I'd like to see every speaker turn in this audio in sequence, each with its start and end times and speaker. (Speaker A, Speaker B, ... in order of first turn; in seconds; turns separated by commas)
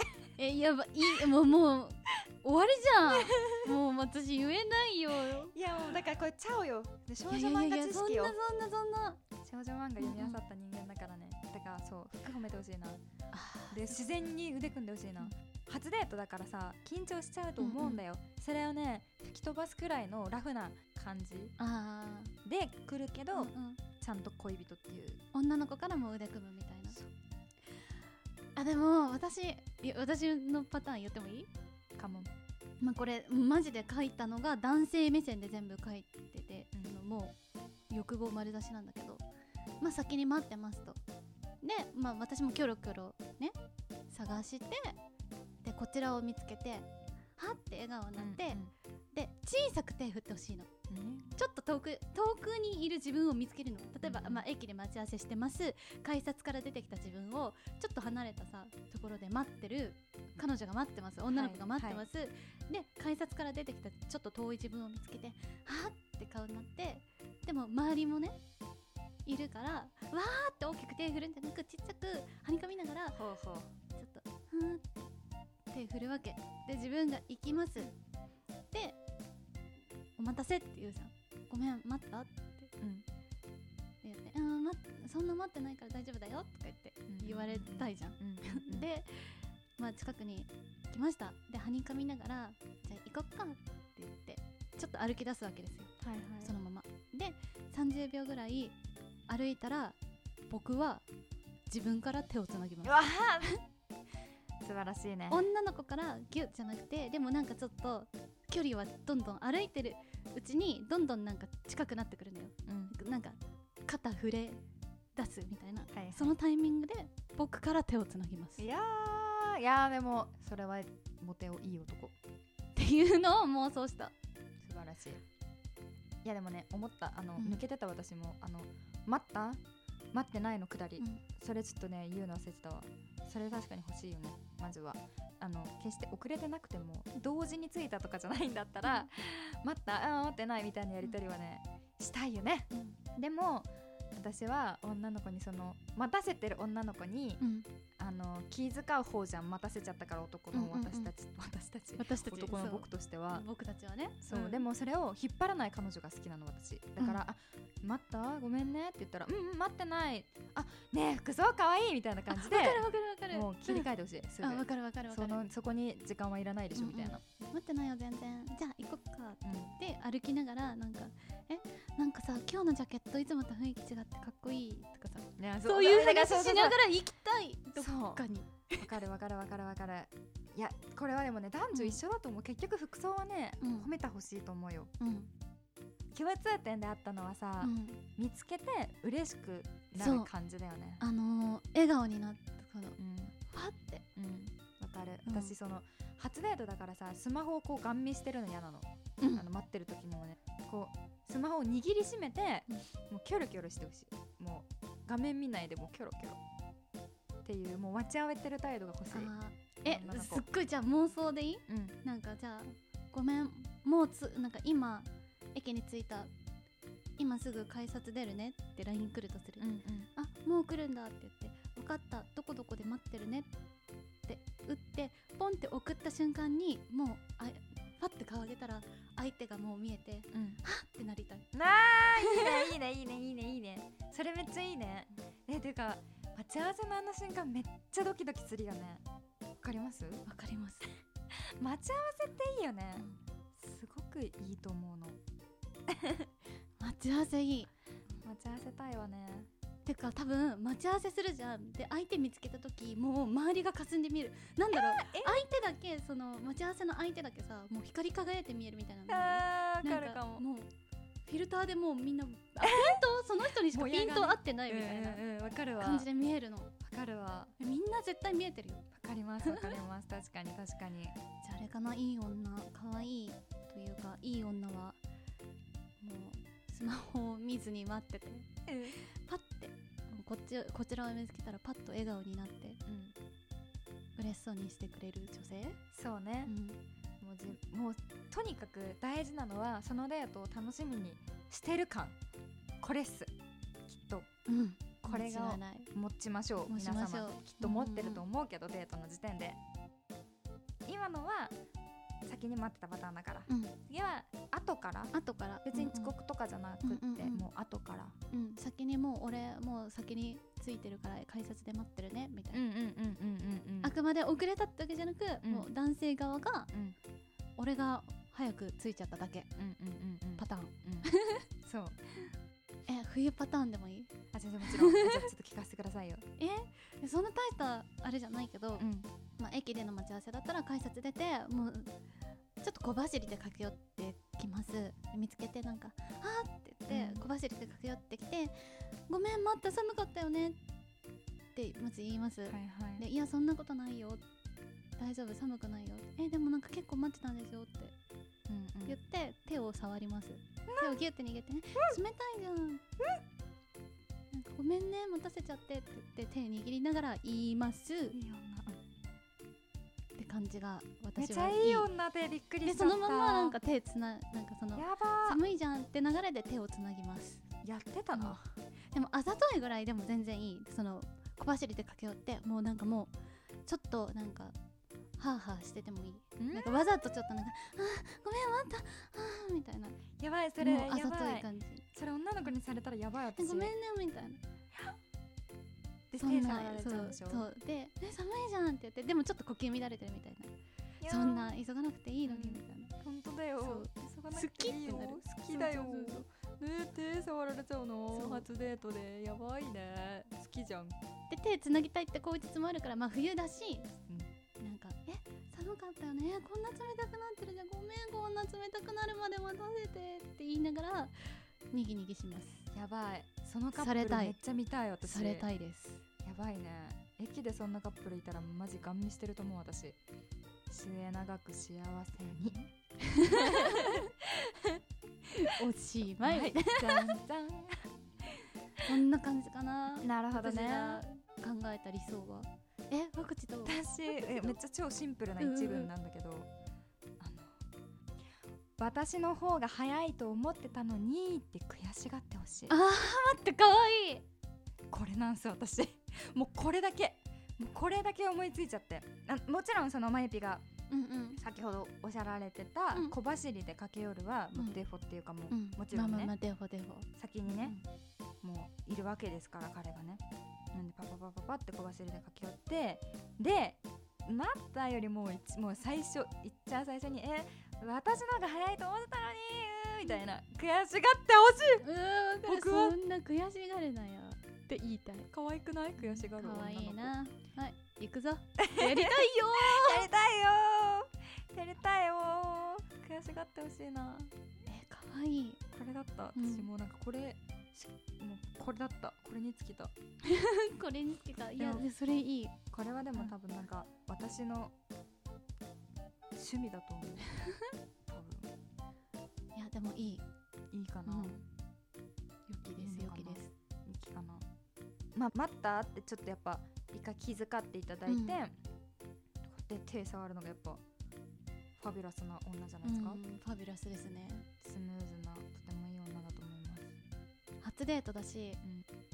Speaker A: 0.4-5.5, Speaker B: 3.1-3.7, Speaker B: 5.3-8.3, Speaker A: 7.3-9.2, Speaker B: 9.4-13.0, Speaker A: 10.0-10.4, Speaker A: 13.3-14.1, Speaker B: 13.7-21.6, Speaker A: 17.6-18.0, Speaker A: 21.6-22.3, Speaker B: 22.4-25.2, Speaker A: 23.3-23.8, Speaker A: 25.3-27.0, Speaker A: 28.6-31.5, Speaker B: 32.0-32.3, Speaker A: 32.8-37.3, Speaker A: 37.9-39.2, Speaker A: 39.8-41.0, Speaker A: 41.6-43.5, Speaker A: 44.1-45.0, Speaker A: 45.6-48.6, Speaker B: 48.2-48.7, Speaker A: 49.1-50.7, Speaker B: 50.9-51.3, Speaker A: 51.4-68.4, Speaker B: 54.0-54.4, Speaker B: 61.3-62.0, Speaker A: 69.2-73.2, Speaker B: 73.1-73.7, Speaker A: 73.9-75.1, Speaker A: 75.7-77.9, Speaker A: 78.7-79.0, Speaker A: 80.2-82.7, Speaker B: 82.8-83.0, Speaker A: 84.0-98.8, Speaker B: 87.1-88.9, Speaker B: 96.0-96.5, Speaker A: 99.3-100.0, Speaker A: 100.5-101.0, Speaker A: 101.7-103.6, Speaker B: 102.8-103.5, Speaker B: 104.6-105.4, Speaker A: 105.3-114.6, Speaker B: 112.7-112.9, Speaker A: 115.2-118.6, Speaker B: 115.9-116.4, Speaker B: 118.6-122.1, Speaker A: 122.8-124.1, Speaker B: 124.6-125.2, Speaker B: 126.2-129.6, Speaker A: 127.4-127.6, Speaker B: 130.1-147.4, Speaker A: 131.0-131.2, Speaker A: 142.7-143.0, Speaker A: 147.4-147.7, Speaker B: 148.0-153.4, Speaker A: 150.5-151.1, Speaker A: 152.0-154.6, Speaker B: 154.2-167.2, Speaker A: 162.3-163.9, Speaker A: 164.4-165.4, Speaker A: 166.8-178.9, Speaker B: 169.4-169.7, Speaker B: 175.4-176.8, Speaker B: 177.8-178.3, Speaker B: 178.8-184.9, Speaker A: 181.7-182.0, Speaker A: 183.6-183.9, Speaker A: 185.0-185.3, Speaker B: 186.1-191.0, Speaker A: 187.6-188.0, Speaker A: 190.0-190.3, Speaker A: 191.0-194.0, Speaker B: 193.0-193.3, Speaker B: 194.2-206.4, Speaker A: 195.2-195.5, Speaker B: 207.4-209.3, Speaker A: 209.1-216.3, Speaker B: 209.8-210.4, Speaker B: 211.7-212.0, Speaker A: 217.2-223.5, Speaker B: 219.6-220.1, Speaker A: 224.2-231.5, Speaker B: 230.3-230.6, Speaker B: 231.5-239.0, Speaker A: 232.2-232.7, Speaker B: 239.6-240.2, Speaker A: 240.2-240.9, Speaker B: 241.6-245.2, Speaker B: 245.9-246.3, Speaker A: 246.8-247.7, Speaker B: 248.2-249.5, Speaker A: 249.8-260.7, Speaker B: 254.7-255.4, Speaker B: 259.1-260.4, Speaker A: 261.2-265.2, Speaker B: 262.6-263.0, Speaker B: 263.7-266.1, Speaker A: 265.8-266.7, Speaker B: 266.8-267.5, Speaker A: 267.6-268.8, Speaker B: 268.9-271.1, Speaker A: 269.4-269.8, Speaker A: 271.4-275.0, Speaker A: 276.0-282.8, Speaker B: 278.7-279.0, Speaker B: 282.9-283.1, Speaker A: 284.2-285.8, Speaker B: 285.9-286.5, Speaker A: 286.4-286.8, Speaker B: 287.2-292.2, Speaker B: 292.8-293.3, Speaker B: 293.9-294.3, Speaker A: 294.5-295.9, Speaker B: 295.0-299.6, Speaker A: 296.7-298.2, Speaker B: 300.8-301.5, Speaker B: 302.2-305.1, Speaker A: 303.5-303.7, Speaker A: 305.1-306.1, Speaker B: 305.6-308.1, Speaker A: 306.8-307.4, Speaker A: 308.3-312.6, Speaker B: 312.5-313.9, Speaker A: 313.8-316.7, Speaker B: 315.4-315.7, Speaker A: 317.6-319.5, Speaker B: 319.6-321.1, Speaker A: 320.4-321.4, Speaker B: 321.6-322.1, Speaker A: 322.9-324.1, Speaker B: 324.3-326.2, Speaker A: 324.6-325.2, Speaker A: 326.4-328.9, Speaker B: 328.8-329.1, Speaker A: 329.4-331.9, Speaker A: 332.6-340.6, Speaker B: 336.9-337.2, Speaker A: 341.5-344.2, Speaker B: 342.5-343.0, Speaker A: 345.0-347.9, Speaker B: 348.5-349.0, Speaker A: 348.9-352.8, Speaker B: 350.7-351.0, Speaker A: 354.3-358.2, Speaker B: 358.1-358.8, Speaker A: 360.2-361.9, Speaker B: 361.2-363.6, Speaker A: 362.6-367.4, Speaker B: 364.7-365.4, Speaker B: 367.6-368.4, Speaker A: 368.9-373.1, Speaker A: 373.6-374.5, Speaker A: 375.2-380.0, Speaker B: 376.4-376.8, Speaker B: 380.2-383.7, Speaker A: 380.6-381.8, Speaker A: 383.4-384.4, Speaker B: 386.1-387.5, Speaker A: 386.2-390.5, Speaker B: 391.0-391.5, Speaker A: 391.0-392.9, Speaker B: 392.2-400.9, Speaker A: 393.6-396.2, Speaker A: 398.1-398.5, Speaker A: 401.3-403.9, Speaker A: 404.6-411.1, Speaker A: 411.7-412.6, Speaker B: 412.7-415.5, Speaker A: 413.7-414.4, Speaker A: 415.0-416.0, Speaker B: 416.2-420.0, Speaker B: 420.7-422.7, Speaker A: 423.0-424.1, Speaker B: 423.2-424.8, Speaker A: 425.3-427.1, Speaker B: 426.2-427.9, Speaker A: 428.9-434.6, Speaker B: 430.0-431.0, Speaker B: 433.6-436.5, Speaker A: 435.4-435.9, Speaker B: 437.2-437.6, Speaker B: 438.8-442.8, Speaker A: 442.7-444.2, Speaker B: 444.9-450.6, Speaker A: 450.9-451.4, Speaker B: 451.4-456.3, Speaker A: 454.5-454.8, Speaker A: 455.5-457.8, Speaker B: 457.2-457.8, Speaker B: 458.4-460.2, Speaker B: 460.7-471.8, Speaker A: 471.8-475.3, Speaker B: 472.4-473.0, Speaker B: 475.3-477.2, Speaker A: 476.0-480.1, Speaker B: 478.6-484.3, Speaker A: 484.7-485.6, Speaker B: 485.7-489.9, Speaker A: 486.3-486.7, Speaker A: 490.2-492.5, Speaker B: 491.6-491.9, Speaker B: 492.7-494.7, Speaker B: 496.3-497.3, Speaker A: 497.4-497.7, Speaker B: 498.1-498.5, Speaker A: 499.5-500.2, Speaker B: 500.7-501.4, Speaker A: 501.1-501.4, Speaker A: 502.5-503.5, Speaker B: 502.8-504.4, Speaker B: 505.1-508.6, Speaker A: 508.1-508.4, Speaker B: 509.4-510.8, Speaker B: 511.8-513.2, Speaker A: 512.8-514.5, Speaker B: 514.6-516.9, Speaker A: 517.6-518.6